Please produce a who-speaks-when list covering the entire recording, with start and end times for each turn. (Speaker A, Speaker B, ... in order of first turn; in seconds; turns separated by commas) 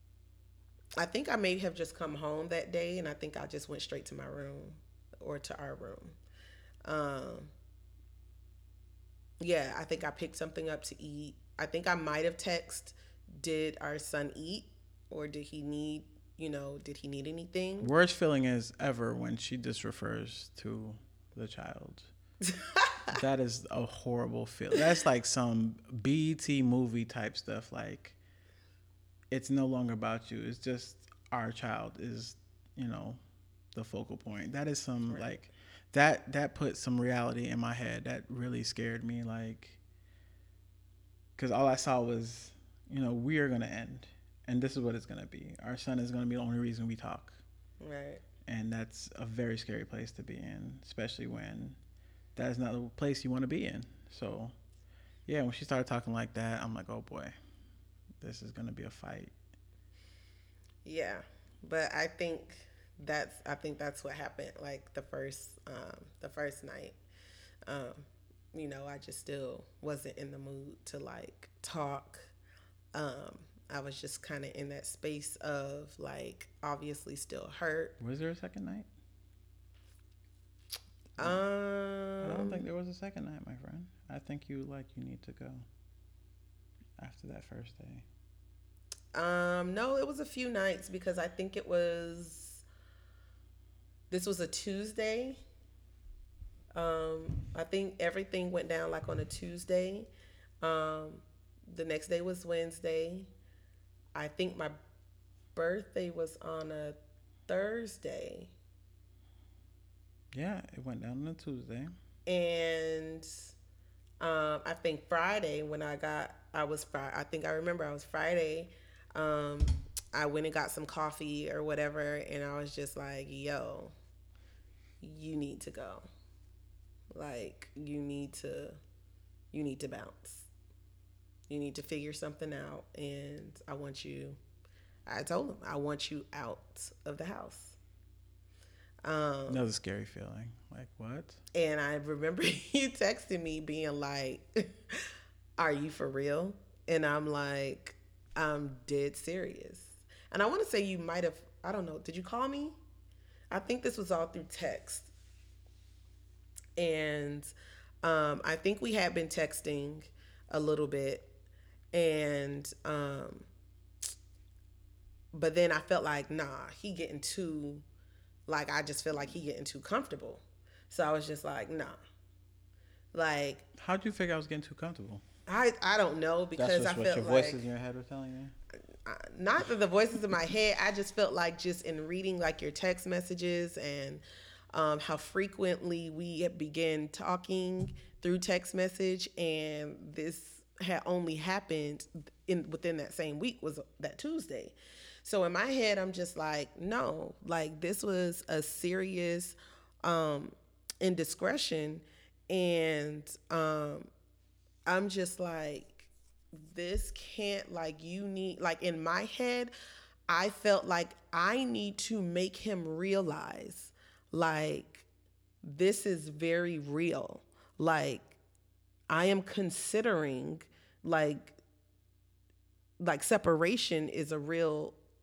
Speaker A: 1.0-6.2, Speaker A: 6.8-7.5, Speaker A: 9.4-17.9, Speaker B: 17.8-22.1, Speaker A: 22.5-23.1, Speaker B: 23.1-28.2, Speaker B: 29.3-33.2, Speaker B: 33.7-39.8, Speaker B: 41.4-47.4, Speaker A: 47.8-48.2, Speaker B: 48.5-51.8, Speaker B: 52.4-54.5, Speaker B: 55.3-57.3, Speaker B: 58.2-59.3, Speaker A: 60.9-67.0, Speaker A: 67.7-72.3, Speaker A: 72.9-78.0, Speaker B: 78.0-78.9, Speaker A: 81.2-82.6, Speaker B: 82.2-85.7, Speaker B: 87.0-88.1, Speaker A: 89.1-92.6, Speaker A: 94.1-95.4, Speaker A: 96.7-100.1, Speaker A: 100.6-103.3, Speaker A: 104.2-104.8, Speaker A: 105.6-107.0, Speaker A: 107.5-108.5, Speaker B: 110.3-112.0, Speaker A: 112.3-113.4, Speaker A: 114.2-123.9, Speaker A: 125.0-126.1, Speaker A: 127.2-128.8, Speaker A: 129.5-130.5, Speaker A: 131.5-134.4, Speaker A: 135.1-137.8, Speaker A: 139.0-139.6, Speaker B: 139.5-141.4, Speaker A: 141.5-152.8, Speaker A: 153.5-155.1, Speaker A: 156.8-161.3, Speaker A: 161.9-163.5, Speaker A: 165.3-167.8, Speaker A: 168.5-172.0, Speaker A: 173.1-173.7, Speaker B: 173.8-175.2, Speaker A: 175.5-177.6, Speaker B: 176.6-178.6, Speaker A: 179.1-184.2, Speaker A: 184.7-204.1, Speaker A: 204.9-209.7, Speaker A: 210.3-215.1, Speaker A: 215.6-218.4, Speaker A: 219.1-221.6, Speaker A: 223.0-225.0